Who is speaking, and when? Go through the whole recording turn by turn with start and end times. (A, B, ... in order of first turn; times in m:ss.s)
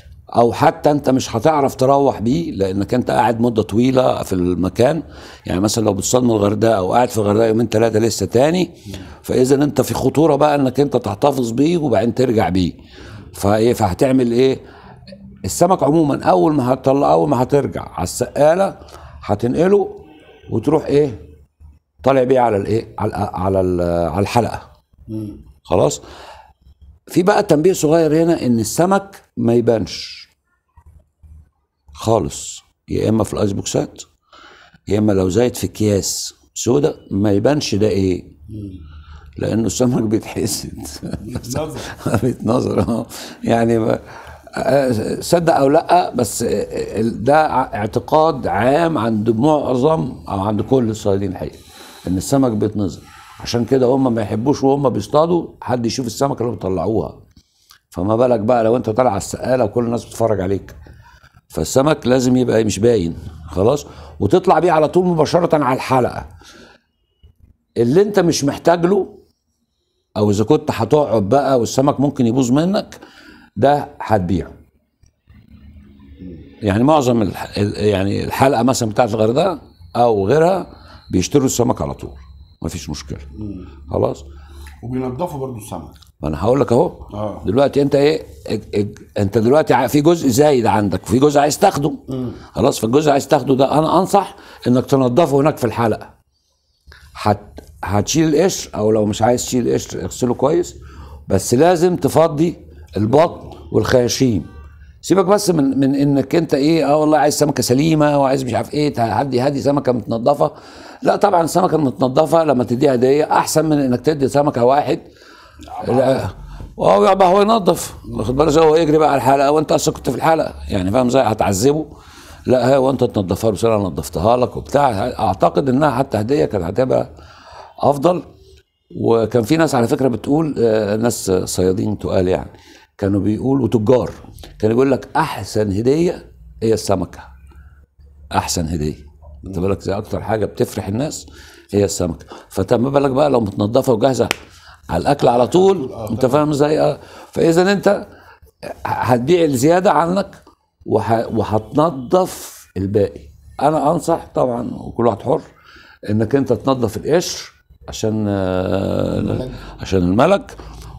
0:00.4-0:12.8 A
0:13.3-0:14.6 A
0:15.4-0:20.0 A
0:20.5-0:21.2 A
0:22.0-0:24.6 A
0:25.1-0:25.4 B
0:25.7-0:26.0 A
0:27.1-0:30.3 A
0:32.0-0:34.1 A
0:34.9-0:38.3 A
0:38.5-0:38.8 B
0:39.4-0:57.2 A
0:41.2-0:41.9 B
0:57.9-1:00.8 A
1:01.5-1:06.3 A
1:07.8-1:09.2 A
1:10.2-1:13.0 A
1:13.6-1:14.5 A
1:16.6-1:23.3 A
1:23.4-1:23.7 B
1:23.9-1:24.2 A
1:24.8-1:26.0 B
1:26.2-1:36.1 A
1:27.1-1:27.5 B
1:32.1-1:32.4 B
1:37.2-1:40.8 A
1:41.3-1:44.5 A
1:45.0-1:55.0 A
1:55.7-1:56.3 B
1:55.8-2:01.9 A
2:02.5-2:07.1 A
2:07.8-2:08.2 A
2:08.9-2:17.3 A
2:18.3-2:24.3 A
2:24.9-2:28.0 A
2:25.2-2:26.4 B
2:28.6-2:35.4 A
2:36.1-2:40.5 A
2:39.1-2:39.6 B